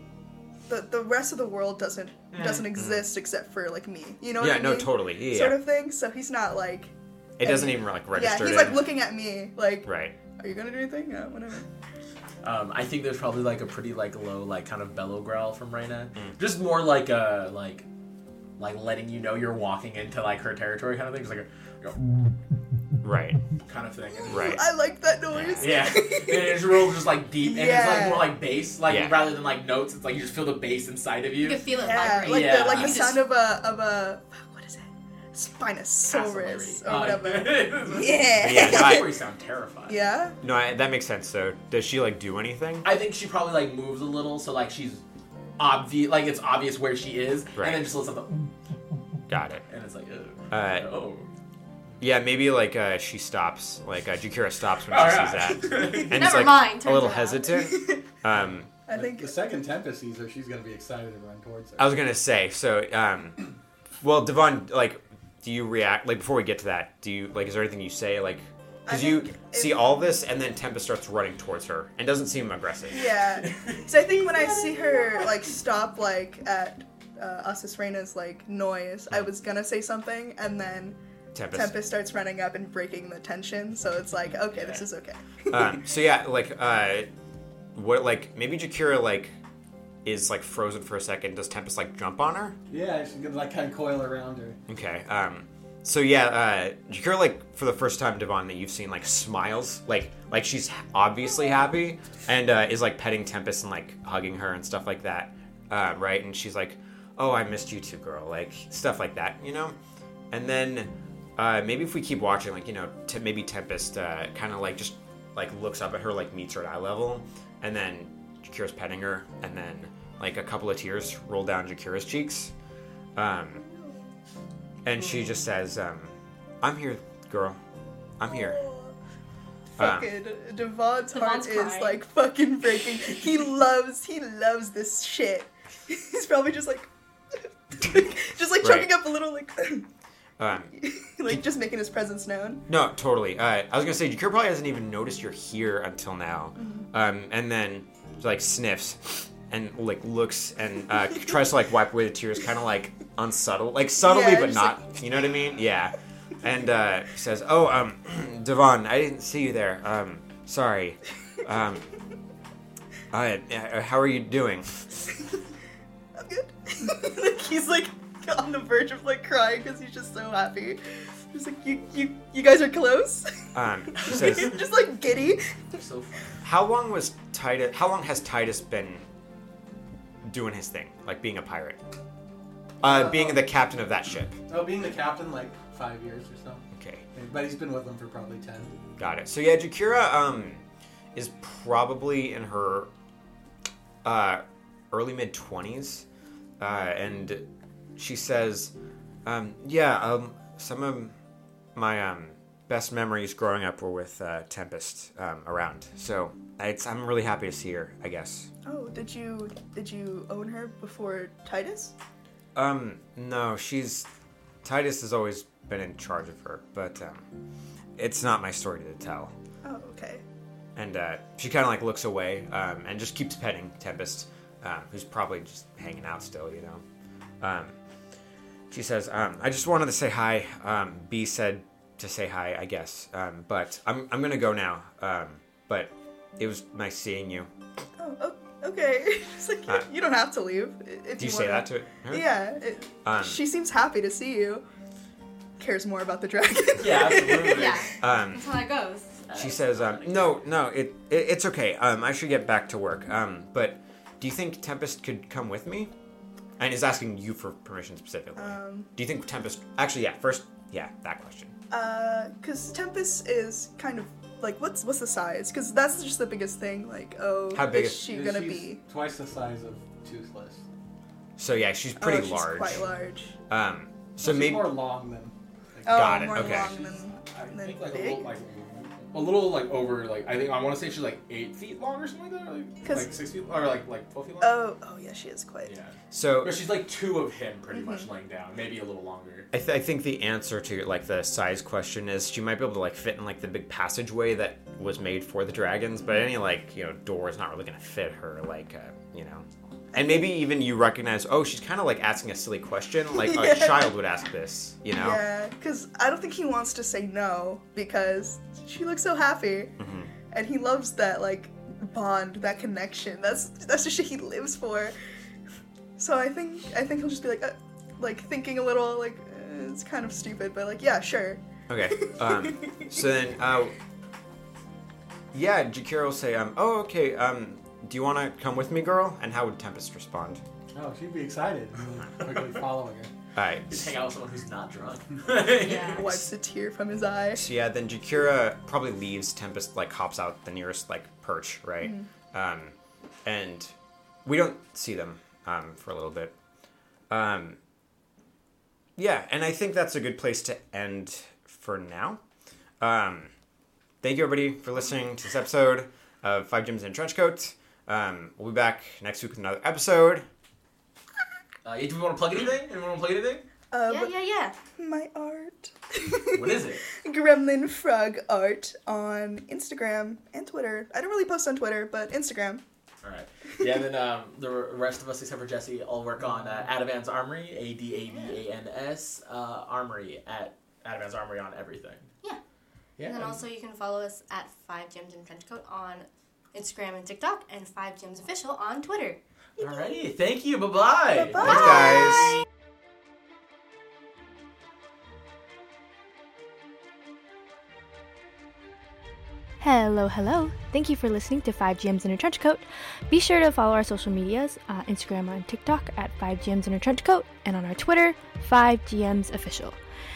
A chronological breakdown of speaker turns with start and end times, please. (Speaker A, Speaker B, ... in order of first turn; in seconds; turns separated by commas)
Speaker A: 0.7-11.7, Speaker B: 2.3-2.6, Speaker C: 2.5-3.1, Speaker C: 4.4-5.6, Speaker C: 7.4-8.9, Speaker C: 9.8-10.2, Speaker B: 12.4-17.9, Speaker B: 18.6-22.0, Speaker C: 23.0-23.4, Speaker B: 23.6-24.6, Speaker C: 24.3-24.6, Speaker A: 24.3-26.7, Speaker C: 25.3-25.9, Speaker B: 25.6-33.1, Speaker A: 27.4-28.3, Speaker C: 28.9-29.2, Speaker D: 31.4-33.2, Speaker A: 31.7-39.1, Speaker B: 36.0-40.0, Speaker C: 38.4-39.1, Speaker A: 39.9-40.4, Speaker C: 40.4-42.9, Speaker B: 42.8-45.0, Speaker B: 45.6-48.5, Speaker C: 47.6-47.9, Speaker C: 49.3-49.6, Speaker B: 49.6-51.3, Speaker C: 50.5-50.9, Speaker C: 52.0-58.7, Speaker B: 54.9-56.3, Speaker D: 55.9-57.7, Speaker A: 57.7-58.0, Speaker A: 58.9-59.6, Speaker E: 58.9-61.9, Speaker C: 61.8-63.4, Speaker C: 64.0-73.1, Speaker A: 68.8-69.9, Speaker A: 72.9-81.0, Speaker B: 73.4-75.5, Speaker C: 81.3-81.8, Speaker A: 81.5-85.8, Speaker B: 84.5-84.8, Speaker C: 85.5-87.1, Speaker C: 87.7-89.3, Speaker C: 90.0-92.5, Speaker E: 92.7-94.6, Speaker C: 94.7-109.8, Speaker C: 110.3-122.5, Speaker C: 123.1-123.6, Speaker C: 124.8-127.6, Speaker C: 128.2-128.6, Speaker A: 128.3-128.9, Speaker A: 129.8-136.9, Speaker C: 129.8-130.1, Speaker D: 131.1-132.0, Speaker A: 137.7-139.9, Speaker C: 138.6-139.0, Speaker C: 140.4-140.7, Speaker A: 140.7-142.7, Speaker C: 142.7-161.9, Speaker A: 146.6-146.8, Speaker A: 154.0-155.2, Speaker C: 163.1-165.0, Speaker A: 166.2-175.8, Speaker C: 173.5-174.6, Speaker B: 175.7-176.4, Speaker C: 176.4-179.1, Speaker C: 180.2-181.8, Speaker E: 182.8-183.4, Speaker C: 182.8-184.4, Speaker E: 184.5-188.8, Speaker C: 186.7-187.0, Speaker C: 189.0-190.6, Speaker C: 191.1-192.9, Speaker C: 194.0-196.0, Speaker C: 196.6-197.4, Speaker C: 198.0-198.7, Speaker C: 199.2-201.1, Speaker C: 201.7-208.5, Speaker A: 208.6-211.9, Speaker C: 212.5-214.1, Speaker C: 214.6-217.3, Speaker C: 218.0-219.3, Speaker A: 219.6-220.2, Speaker C: 220.8-226.8, Speaker C: 227.4-227.8, Speaker C: 228.7-237.5, Speaker A: 238.0-244.6, Speaker C: 241.2-242.4, Speaker C: 243.0-243.4, Speaker A: 245.6-247.8, Speaker B: 246.8-247.8, Speaker D: 247.5-249.2, Speaker C: 248.0-248.5, Speaker B: 249.3-250.5, Speaker C: 249.3-255.9, Speaker C: 256.6-261.5, Speaker A: 258.4-258.9, Speaker A: 261.7-268.8, Speaker C: 267.5-268.1, Speaker E: 268.0-270.6, Speaker C: 271.4-272.8, Speaker A: 272.0-273.3, Speaker C: 273.5-274.8, Speaker E: 274.2-276.8, Speaker A: 275.8-278.3, Speaker C: 275.9-276.7, Speaker B: 277.2-284.6, Speaker A: 282.8-283.2, Speaker A: 284.4-285.7, Speaker B: 285.6-289.5, Speaker C: 286.1-286.6, Speaker A: 287.7-288.1, Speaker C: 289.5-305.2, Speaker A: 303.2-303.9, Speaker A: 304.9-309.8, Speaker C: 309.8-310.1, Speaker A: 310.3-314.9, Speaker A: 316.0-321.4, Speaker C: 321.7-323.8, Speaker A: 322.0-322.8, Speaker C: 325.3-330.4, Speaker E: 330.7-333.1, Speaker C: 333.4-333.9, Speaker B: 333.7-336.0, Speaker D: 335.6-336.0, Speaker A: 335.9-337.5, Speaker C: 335.9-336.3, Speaker C: 337.3-343.7, Speaker A: 341.8-342.1, Speaker C: 344.2-346.3, Speaker C: 347.1-347.6, Speaker C: 349.0-352.2, Speaker C: 352.8-353.3, Speaker C: 354.0-360.2, Speaker B: 361.6-363.4, Speaker A: 363.7-364.1, Speaker D: 363.9-364.5, Speaker A: 364.8-372.6, Speaker B: 366.3-366.8, Speaker B: 373.0-382.1, Speaker D: 378.1-378.4, Speaker B: 383.0-383.4, Speaker D: 383.0-389.2, Speaker B: 389.6-391.6, Speaker A: 391.3-391.9, Speaker C: 391.4-392.3, Speaker F: 399.6-409.8